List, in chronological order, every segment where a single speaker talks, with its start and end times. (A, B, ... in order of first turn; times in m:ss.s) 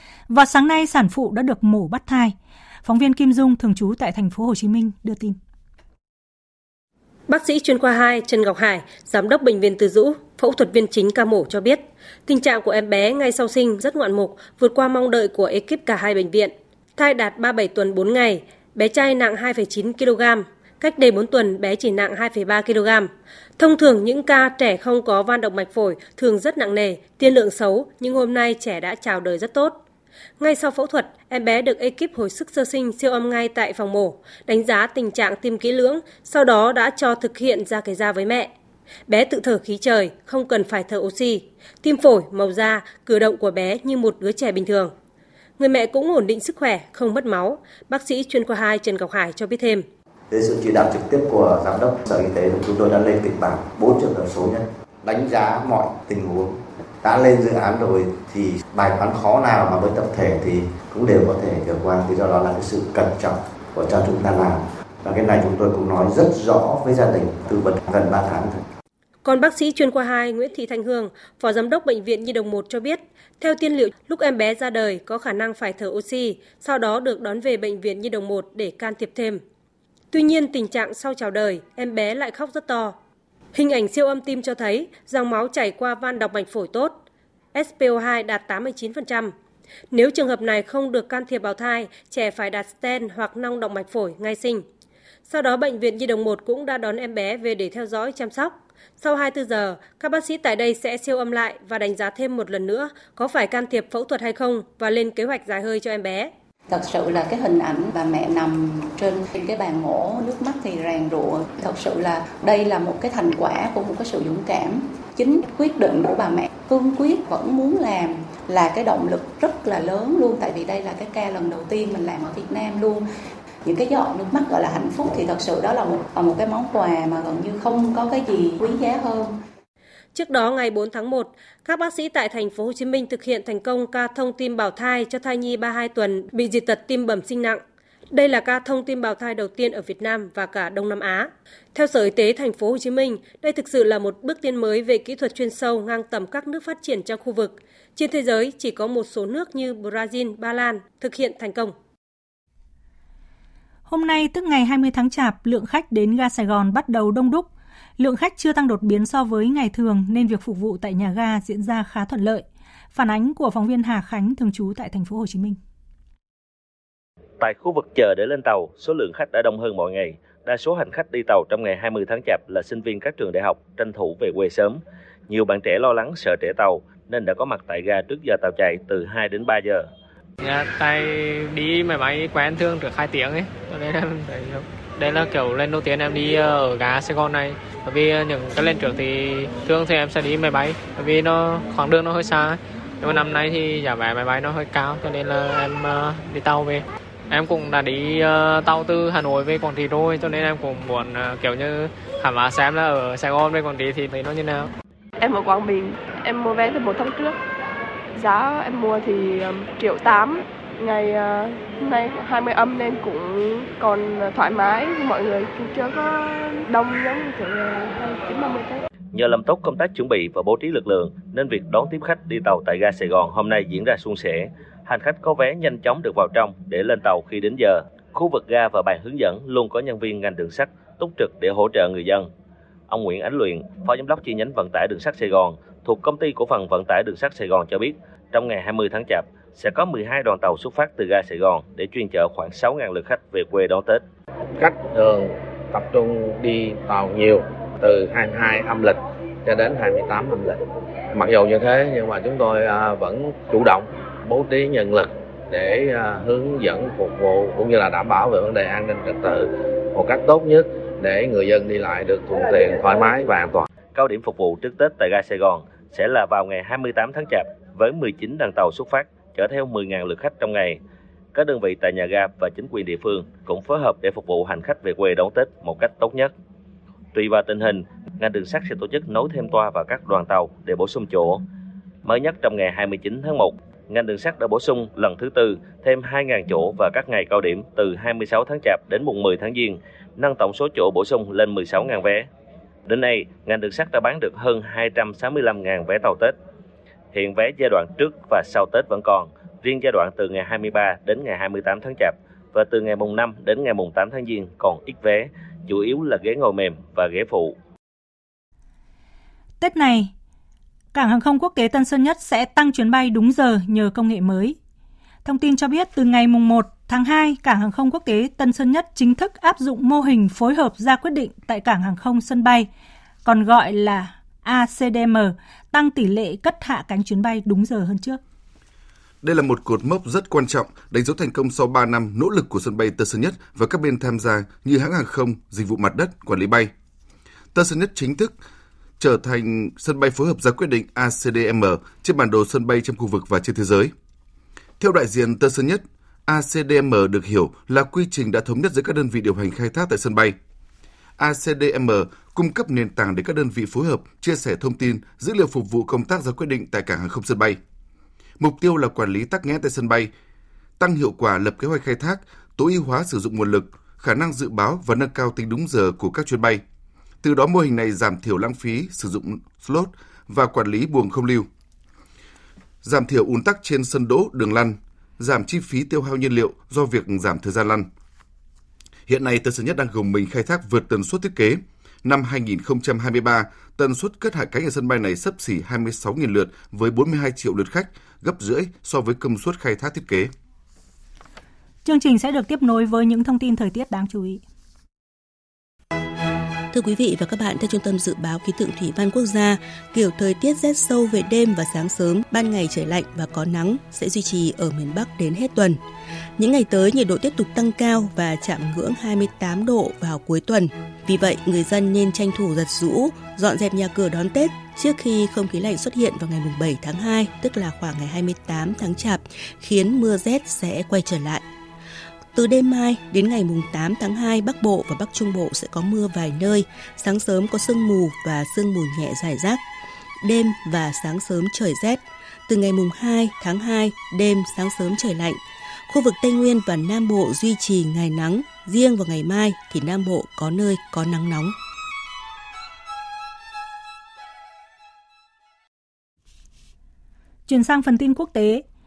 0:00.3-0:05.4 A
0:07.3-0:29.8 B
0:30.4-0:38.5 B
0:39.1-0:44.9 B
0:45.6-0:49.9 B
0:50.3-1:08.6 C
1:09.2-1:19.4 B
1:20.1-1:23.0 B
1:23.6-1:27.0 B
1:27.5-1:29.3 B
1:29.9-1:34.6 B
1:35.3-1:46.3 B
1:46.7-1:54.5 D
1:55.2-1:57.6 D
1:58.5-2:03.0 D
2:03.7-2:09.3 D
2:10.1-2:17.6 B
2:18.1-2:31.7 B
2:33.9-2:45.6 A
2:47.4-2:59.9 E
3:00.4-3:24.7 F
3:25.2-3:27.3 G
3:28.2-3:30.3 G
3:30.8-3:31.2 G
3:31.9-3:33.2 G
3:33.8-3:36.0 G
3:36.7-3:38.8 G
3:39.1-3:52.3 E
3:52.9-4:04.0 E
4:04.6-4:10.6 H
4:11.1-4:23.7 H
4:23.9-4:30.8 E
4:31.3-4:36.3 E
4:37.1-4:41.4 E
4:42.0-4:52.3 E
4:52.9-4:56.4 E
4:57.1-5:07.6 E
5:09.6-5:10.1 A
5:11.0-5:14.6 A
5:15.2-5:22.7 A
5:23.2-5:28.2 A
5:29.2-5:36.7 I
5:37.5-5:38.4 I
5:39.0-5:43.9 I
5:44.8-5:50.4 I
5:51.2-5:57.6 I
5:58.4-6:00.1 I
6:00.8-6:06.6 I
6:07.2-6:11.5 I
6:12.8-6:17.9 I
6:19.1-6:30.3 I
6:31.8-6:34.4 A
6:36.7-6:45.8 J
6:46.4-7:01.4 J
7:02.3-7:09.6 J
7:10.2-7:21.5 J
7:27.5-7:28.6 A